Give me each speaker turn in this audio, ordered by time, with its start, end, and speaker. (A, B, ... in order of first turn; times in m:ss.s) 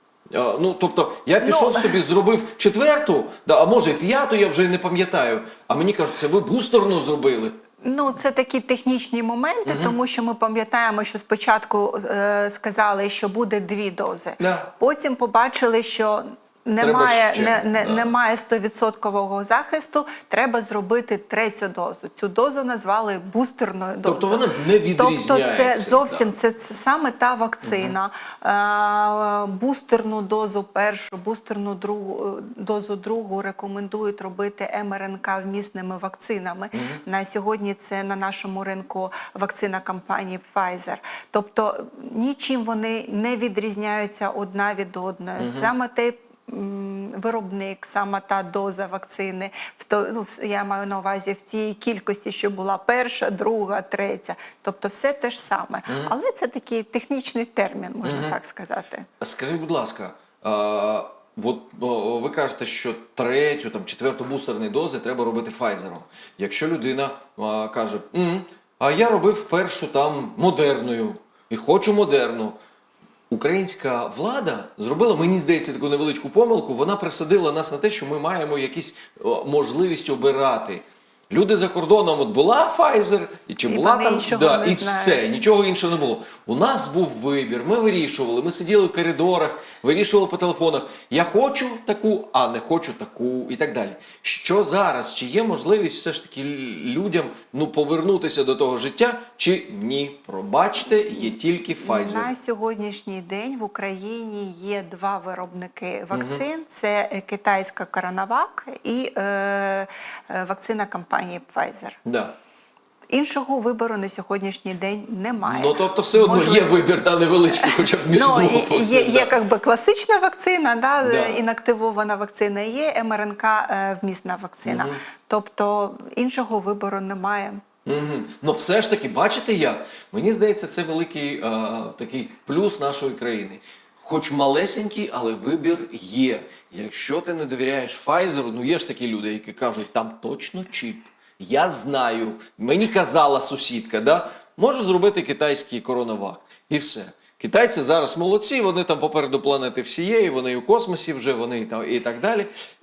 0:00.3-0:07.6 A
0:01.4-0:02.0 B
0:07.8-0:59.1 B
0:09.6-0:10.0 A
0:14.4-0:14.7 A
0:16.8-0:18.1 A
0:24.0-0:26.3 A
0:27.6-0:27.9 A
0:36.7-0:37.0 A
0:45.4-0:45.7 A
0:55.9-0:56.1 A
0:58.0-0:58.3 A
0:59.2-1:12.6 A
1:13.3-1:42.3 A
1:23.6-1:25.4 B
1:41.8-1:52.0 B
1:46.1-1:46.4 A
1:52.0-1:52.3 A
1:53.1-1:56.8 B
1:55.4-1:59.3 A
1:57.5-2:07.6 B
2:01.0-2:01.4 A
2:04.6-2:05.0 A
2:07.8-2:32.5 A